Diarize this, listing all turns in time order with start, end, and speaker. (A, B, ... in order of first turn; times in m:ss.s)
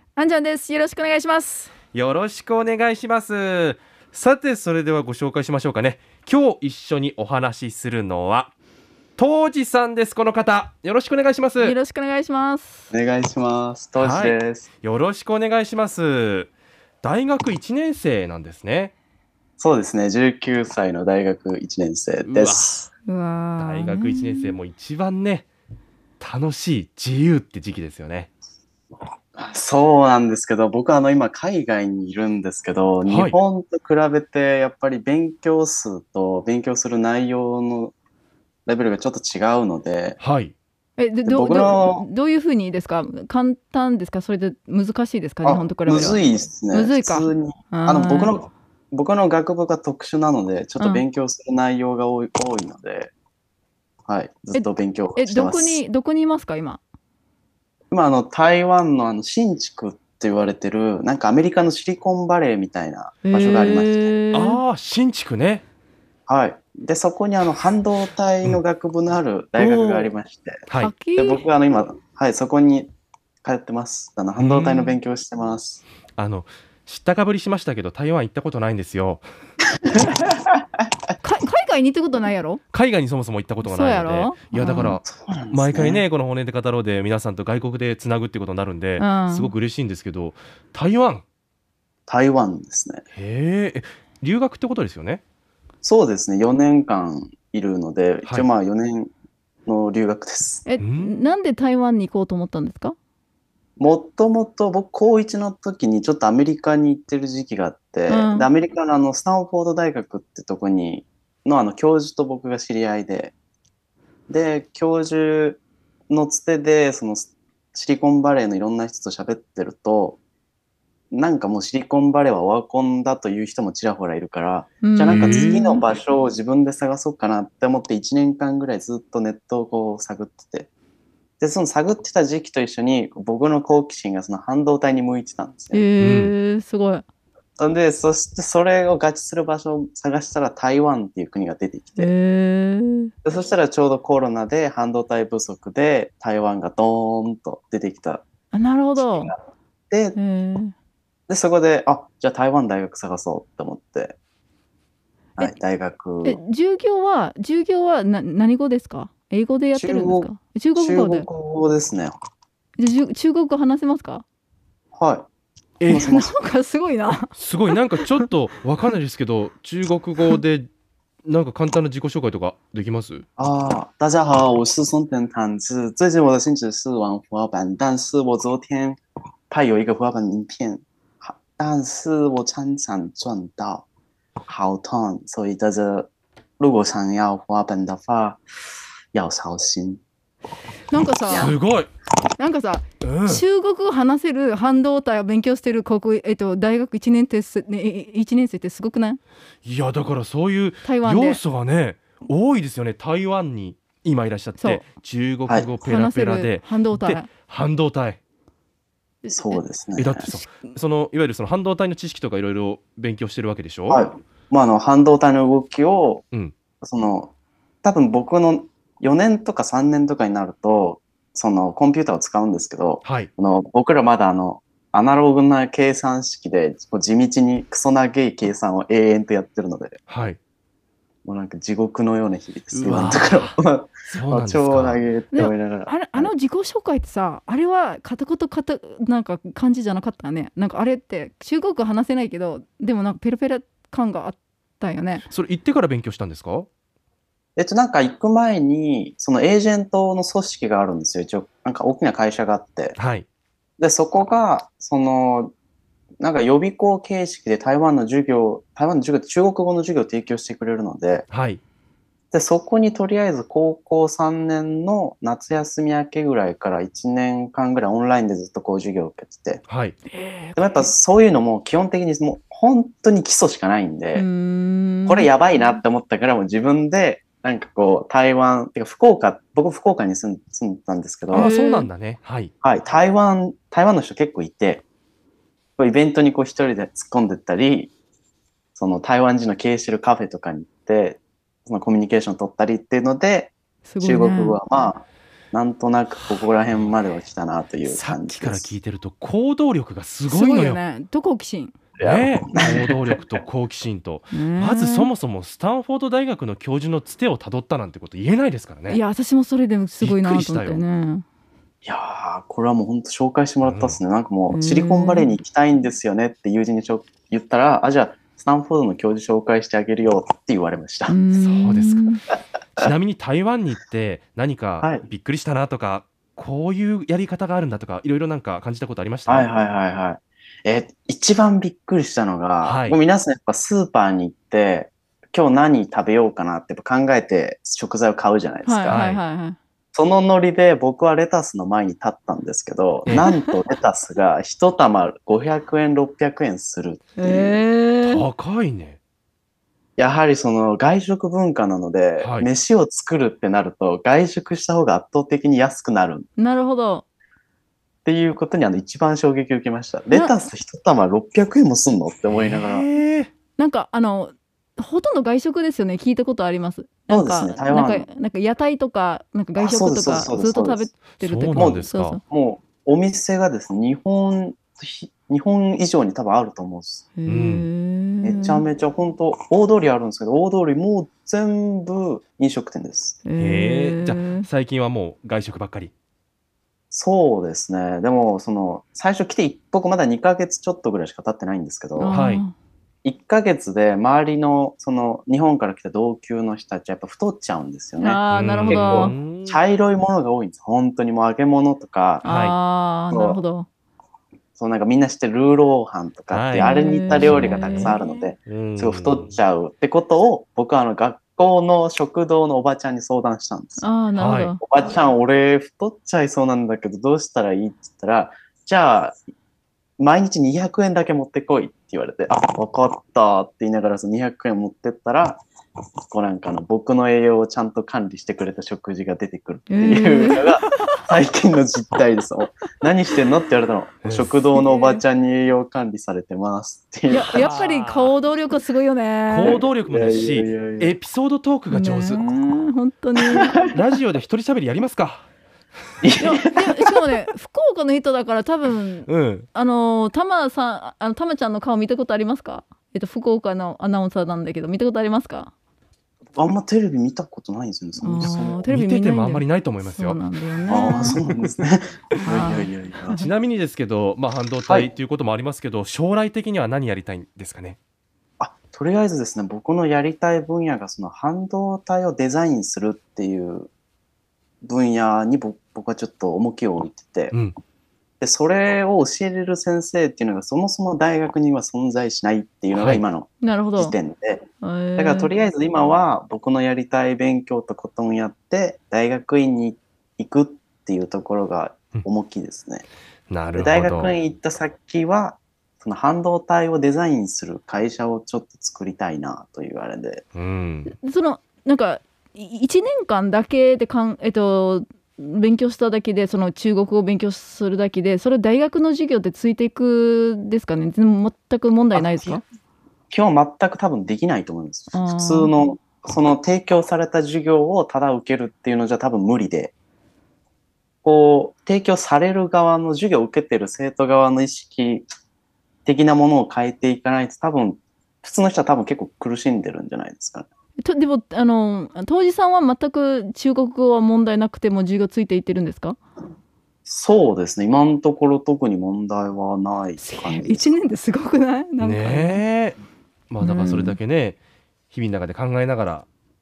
0:00.2-0:01.7 A
0:01.9-0:08.5 B
0:09.2-0:11.8 B
0:11.6-0:12.9 A
0:12.9-0:14.7 C
0:14.0-0:16.5 B
0:17.0-0:18.9 B
0:19.6-0:22.9 C
0:22.2-0:22.9 B
0:23.0-0:24.6 A
0:23.6-0:25.5 B
0:26.2-0:28.3 B
0:29.3-0:37.9 C
0:33.0-0:33.4 B
0:38.6-0:40.2 C
0:40.2-0:40.5 B
0:41.0-0:48.4 A
0:41.3-0:42.1 C
0:45.4-0:53.1 C
0:50.8-0:51.0 A
0:54.1-0:55.8 C
0:54.5-0:56.8 A
0:57.9-1:04.1 C
1:03.2-1:04.6 A
1:04.3-1:05.6 B
1:06.3-1:10.6 C
1:09.6-1:10.1 B
1:10.7-1:10.9 B
1:10.8-1:11.4 A
1:11.2-1:12.9 C
1:13.4-1:15.8 C
1:14.4-1:15.0 B
1:16.2-1:19.2 B
1:19.9-1:20.8 C
1:21.2-1:22.6 A
1:22.7-1:31.2 B
1:23.6-1:25.0 A
1:24.6-1:26.0 C
1:29.0-1:29.5 A
1:32.1-1:33.0 C
1:33.1-1:35.2 B
1:35.8-1:39.1 C
1:39.6-1:40.6 C
1:40.6-1:43.0 A
1:40.8-1:41.1 B
1:43.8-1:53.3 C
1:48.1-1:48.5 A
1:54.3-2:00.2 C
2:01.1-2:10.7 C
2:04.8-2:05.8 A
2:05.0-2:05.6 B
2:11.4-2:15.8 C
2:15.7-2:17.0 A
2:16.0-2:16.3 B
2:17.6-2:22.1 C
2:22.0-2:23.1 A
2:23.2-2:28.2 C
2:28.5-2:29.3 A
2:29.0-2:30.2 C
2:30.1-2:30.7 A
2:31.3-2:34.2 C
2:35.4-2:36.4 C
2:36.2-2:41.2 A
2:39.7-2:42.2 C
2:42.8-2:44.2 A
2:44.9-2:45.3 C
2:45.8-2:46.1 B
2:45.9-2:46.3 C
2:45.9-2:47.3 A
2:47.3-2:50.7 B
2:48.0-2:48.2 A
2:51.2-2:53.2 B
2:53.4-2:59.0 C
2:59.5-3:03.8 C
3:04.5-3:08.4 C
3:09.1-3:10.0 C
3:10.9-3:11.5 A
3:11.3-3:11.6 C
3:11.3-3:11.9 B
3:12.4-3:19.2 A
3:13.0-3:13.4 B
3:19.6-3:28.2 B
3:20.8-3:21.4 A
3:24.6-3:24.8 A
3:25.8-3:27.3 A
3:29.2-3:29.6 A
3:29.3-3:30.3 C
3:30.0-3:34.1 B
3:30.2-3:30.7 A
3:33.9-3:36.2 C
3:36.8-3:50.0 C
3:43.0-3:43.3 B
3:50.1-3:50.4 B
3:51.2-3:56.3 C
3:52.7-3:53.6 B
3:54.1-3:55.0 B
3:55.3-4:05.2 A
4:05.3-4:06.7 B
4:07.6-4:13.0 C
4:13.0-4:13.2 B
4:13.8-4:15.5 C
4:16.2-4:21.3 C
4:21.3-4:21.6 B
4:22.3-4:29.6 C
4:29.7-4:30.0 B
4:30.1-4:30.9 A
4:30.6-4:34.3 C
4:34.1-4:35.8 A
4:35.0-4:41.5 C
4:41.3-4:42.5 B
4:41.3-4:41.9 A
4:42.6-4:44.8 C
4:45.8-4:47.9 C
4:48.7-4:58.8 C
4:53.8-4:54.6 A
4:57.8-5:00.8 B
5:00.3-5:01.7 A
5:02.0-5:02.9 C
5:02.0-5:09.0 B
5:04.3-5:05.1 A
5:08.9-5:11.2 A
5:10.0-5:10.8 B
5:11.8-5:21.2 C
5:13.6-5:14.0 B
5:14.5-5:15.4 A
5:21.1-5:22.2 A
5:21.3-5:22.0 B
5:22.8-5:29.5 B
5:29.3-5:39.0 C
5:32.6-5:33.0 B
5:38.6-5:39.6 A
5:38.9-5:39.2 B
5:39.9-5:47.6 C
5:43.1-5:43.5 A
5:47.2-5:48.2 A
5:48.0-5:49.0 B
5:50.0-5:56.3 C
5:52.2-5:52.5 B
5:56.4-5:57.0 A
5:58.0-6:02.9 C
6:02.3-6:03.3 B
6:03.6-6:12.2 A
6:07.1-6:08.1 C
6:09.6-6:10.9 C
6:11.2-6:12.2 B
6:11.5-6:17.1 C
6:17.2-6:18.6 A
6:17.2-6:17.7 B
6:18.2-6:23.2 C
6:23.2-6:24.5 A
6:23.4-6:25.9 B
6:26.9-6:32.2 C
6:32.0-6:32.5 A
6:32.1-6:32.4 B
6:33.0-6:42.2 C
6:38.0-6:39.1 A
6:38.3-6:39.6 B
6:42.2-6:42.5 B
6:42.2-6:43.7 A
6:43.1-6:43.4 C
6:44.6-6:53.9 C
6:46.3-6:49.3 B
6:46.6-6:48.1 A
6:53.8-6:54.6 A
6:54.2-6:54.5 B
6:54.6-6:59.2 C
7:00.0-7:05.4 C
7:06.1-7:17.6 C
7:09.7-7:11.0 A
7:14.0-7:14.3 B
7:14.5-7:15.0 A
7:17.1-7:19.6 A
7:17.1-7:18.1 B
7:19.3-7:22.2 B
7:19.4-7:21.0 C
7:21.7-7:23.6 A
7:23.2-7:23.7 C
7:23.6-7:25.3 B
7:26.0-7:26.8 C
7:26.2-7:35.5 A
7:29.1-7:29.5 B
7:36.3-7:38.6 C
7:38.0-7:41.2 A
7:38.7-7:40.2 B
7:40.7-7:43.2 C
7:41.0-7:41.4 B
7:42.2-7:43.3 A
7:43.2-7:47.8 B
7:48.4-7:53.7 C
7:54.6-7:57.3 C
7:58.2-8:12.8 C
8:02.7-8:03.0 B
8:03.4-8:03.9 A
8:04.6-8:05.3 A
8:13.3-8:14.2 B
8:13.5-8:20.2 C
8:20.3-8:20.9 B
8:20.9-8:32.4 A
8:31.9-8:32.4 C
8:33.1-8:39.7 C
8:34.9-8:35.6 A
8:41.0-8:45.1 C
8:45.8-8:50.5 C
8:50.8-8:56.0 A
8:56.8-9:00.8 C
9:00.0-9:02.4 A
9:01.8-9:02.8 B
9:03.3-9:04.4 B
9:03.4-9:04.0 A
9:04.9-9:06.0 B